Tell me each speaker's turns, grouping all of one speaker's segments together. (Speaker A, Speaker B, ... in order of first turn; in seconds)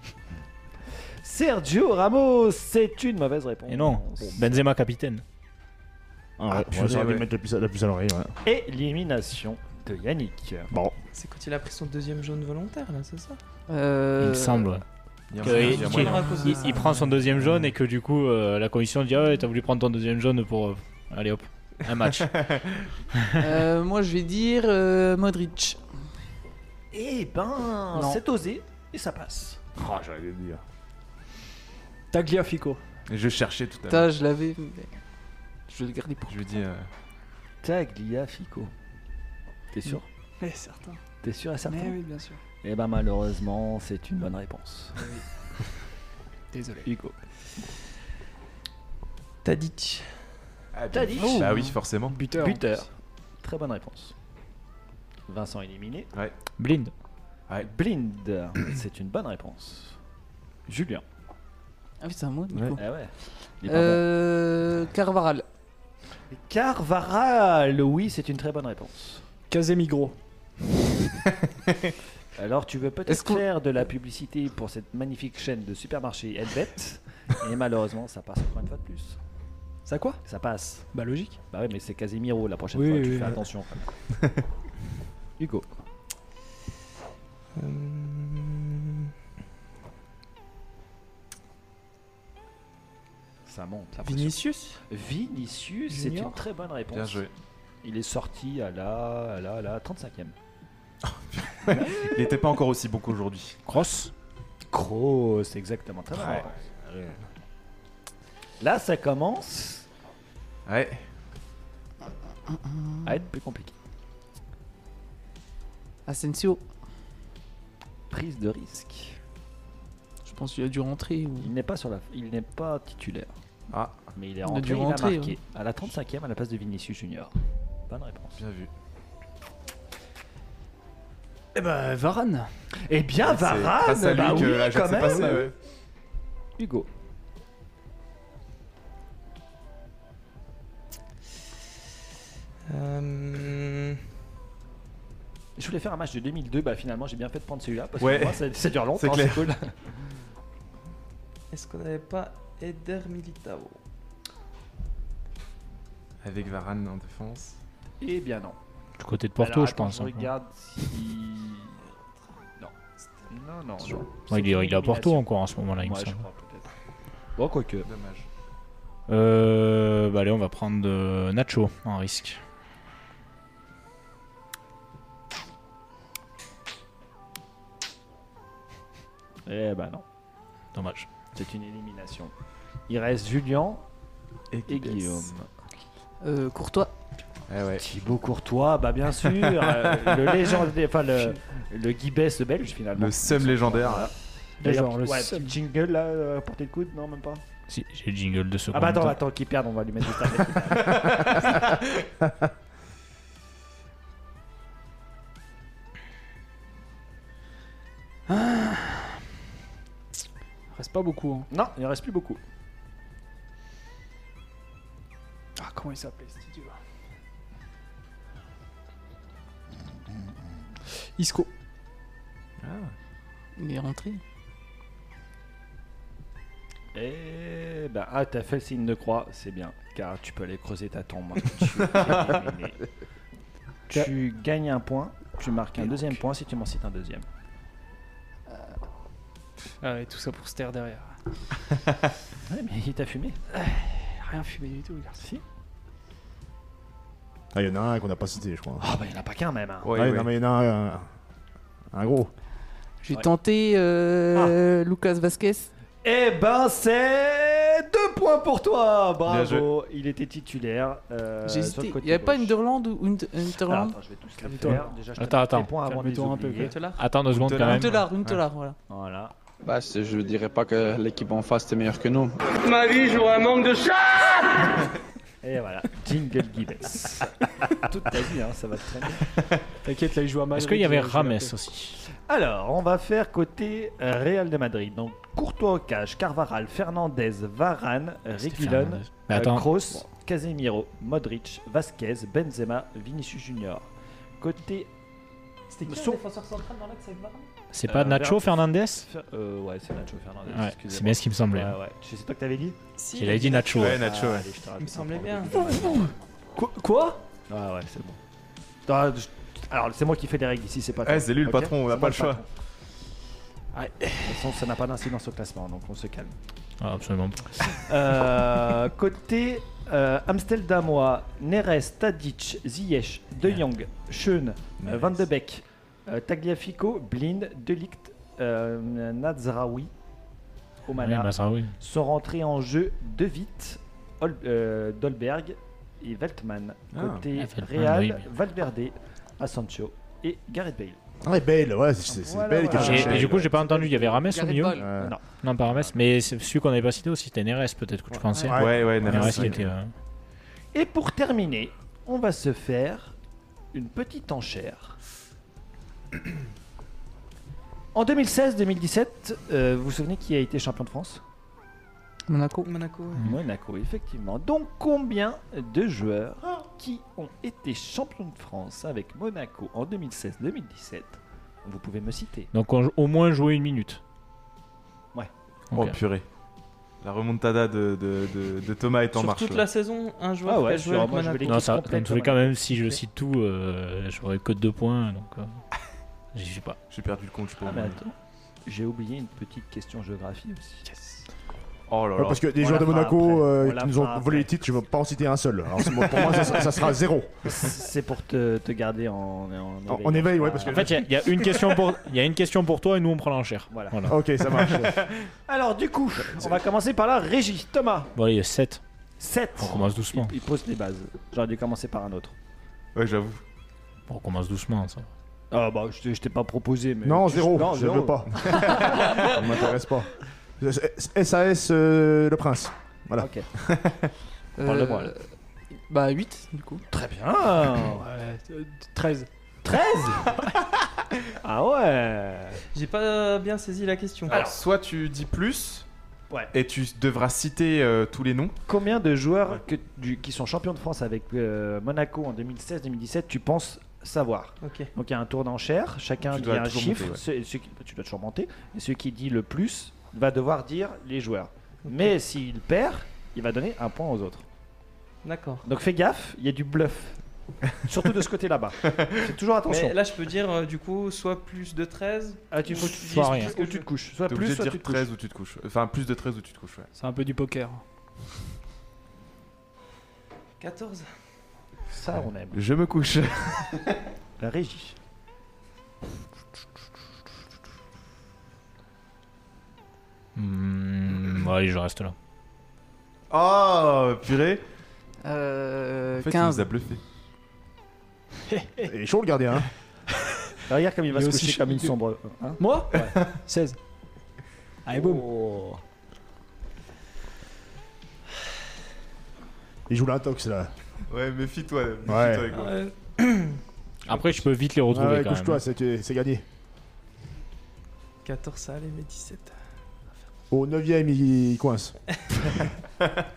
Speaker A: 1.2-4.7, 8.4-10.7, 26.9-29.6, 37.6-38.7, 39.7-40.0, 41.2-42.0, 42.6-45.0, 46.8-47.1, 50.9-51.4, 52.3-52.9, 53.4-54.1, 55.3-56.1, 57.6-60.0, 60.7-61.0, 62.8-64.0, 66.3-69.2, 72.3-79.2, 80.2-80.9, 81.5-83.9, 85.4-85.7, 93.5-97.2, 97.8-100.3, 104.7-106.6, 108.6-109.8, 113.0-113.7, 118.1-119.2, 121.4-123.3, 124.1-127.3, 127.9-128.4, 132.9-135.5, 136.6-136.9, 145.6-149.7, 158.0-158.6, 159.4-161.8, 163.3-165.2, 165.8-166.7, 167.4-167.9, 179.4-180.0, 181.3-182.3, 182.9-183.8, 184.7-185.5, 187.8-197.4, 198.7-201.6, 211.5-212.4, 226.9-232.8, 233.9-237.2, 242.5-243.4, 248.8-249.9, 256.0-262.5, 263.6-266.8, 268.9-269.3, 275.4-279.3, 282.1-293.9, 294.4-294.9, 295.9-296.2, 297.9-302.8, 303.6-306.1, 307.5-308.2, 308.9-312.4, 314.2-316.3, 317.6-329.9, 330.9-341.0, 342.1-344.3, 350.7-353.1, 353.7-355.0, 357.9-361.2, 363.2-372.5, 380.4-382.6, 387.6-388.1, 388.6-390.8, 392.5-394.5, 397.4-401.0, 403.7-404.0, 405.5-408.1, 409.2-412.3, 415.5-419.2, 423.2-423.5, 424.6-425.1, 426.9-428.0, 429.6-430.4, 431.4-432.6, 434.3-434.6, 438.7-454.4, 455.6-457.2, 457.9-460.0, 462.5-465.1, 471.9-472.6, 474.4-474.9, 490.7-493.2, 494.9-495.8
Speaker B: 3.7-5.2, 14.2-14.8, 15.4-22.3, 56.6-56.9, 103.7-104.1, 159.0-160.3, 164.3-166.2, 169.1-172.4, 180.7-181.1, 197.7-199.2, 265.2-265.7, 267.0-268.1, 280.5-282.0, 288.4-290.0, 297.7-299.1, 300.5-301.8, 303.1-304.0, 316.8-317.6, 331.0-331.7, 337.3-338.2, 342.7-344.8, 345.4-349.9, 372.5-374.0, 375.7-376.0, 381.5-385.6, 386.3-386.8, 400.6-404.3, 408.1-408.8, 409.6-410.3, 414.1-415.1, 462.9-463.5, 480.3-482.1, 504.1-505.6
Speaker C: 6.4-8.3, 29.8-30.6, 247.5-248.8, 249.9-251.1, 251.9-252.3, 341.2-343.4, 344.8-345.1, 348.4-349.6, 392.1-397.5, 399.9-401.1, 404.1-404.9, 417.0-423.3, 488.9-489.7, 499.9-500.7, 502.0-502.5, 504.9-506.4, 510.5-511.9
Speaker D: 6.7-7.2, 15.3-16.4, 22.1-22.7, 33.1-34.1, 36.3-36.9, 50.7-52.2, 96.9-97.3, 101.0-103.6, 110.7-111.0, 123.7-124.0, 128.4-128.7, 133.2-135.5, 148.0-148.4, 148.9-149.5, 156.2-157.6, 167.8-168.2, 184.5-185.3, 187.5-187.8, 189.7-190.2, 193.0-194.1, 200.8-201.8, 222.6-222.9, 231.8-232.3, 249.8-250.3, 259.2-259.7, 267.3-268.4, 303.8-304.5, 311.0-312.4, 324.8-325.1, 336.9-337.2, 348.5-349.6, 375.7-376.2, 377.0-379.6, 386.9-388.0, 391.9-392.4, 404.7-405.0, 412.9-413.4, 423.7-424.0, 434.3-435.9, 436.5-438.5, 446.3-447.2, 464.3-466.9, 472.5-474.0, 483.3-484.6, 486.2-487.0, 501.1-502.8
Speaker E: 11.1-13.4, 15.5-16.9, 49.4-50.1, 87.5-89.1, 94.0-94.8, 95.9-96.3, 142.7-144.0, 151.5-153.8, 266.6-267.0, 295.7-297.5, 303.0-304.0, 304.8-305.7, 362.6-363.3, 379.1-381.8, 382.6-383.0, 432.7-434.4, 444.6-444.9, 455.2-455.6, 459.7-463.9, 470.6-471.1, 502.5-503.6, 508.2-509.5
Speaker F: 13.7-14.7, 23.4-25.8, 33.9-34.9, 35.7-36.4, 62.0-62.8, 63.6-65.4, 73.1-73.4, 112.5-113.1, 116.1-116.6, 120.2-121.5, 124.4-125.4, 186.2-186.9, 223.6-224.2, 253.0-255.7, 261.4-264.0, 267.5-268.8, 344.3-345.0, 362.3-362.7, 424.6-425.3, 425.9-426.8, 485.2-486.7
Speaker G: 32.1-32.8, 40.4-41.0, 41.6-42.4, 45.0-45.2, 46.5-46.9, 51.1-52.7, 69.5-70.2, 79.8-80.2, 80.9-81.4, 82.7-83.4, 131.5-132.5, 194.6-195.5, 208.3-209.0, 210.7-211.5, 215.6-216.8, 221.2-221.5, 239.8-241.1, 243.5-245.2, 264.4-264.8, 265.9-266.7, 279.8-281.5, 305.6-307.2, 313.7-314.3, 390.9-391.2, 427.9-429.3, 466.9-467.8, 488.5-488.9, 491.1-491.9, 492.6-493.8, 494.9-495.2
Speaker H: 269.6-274.4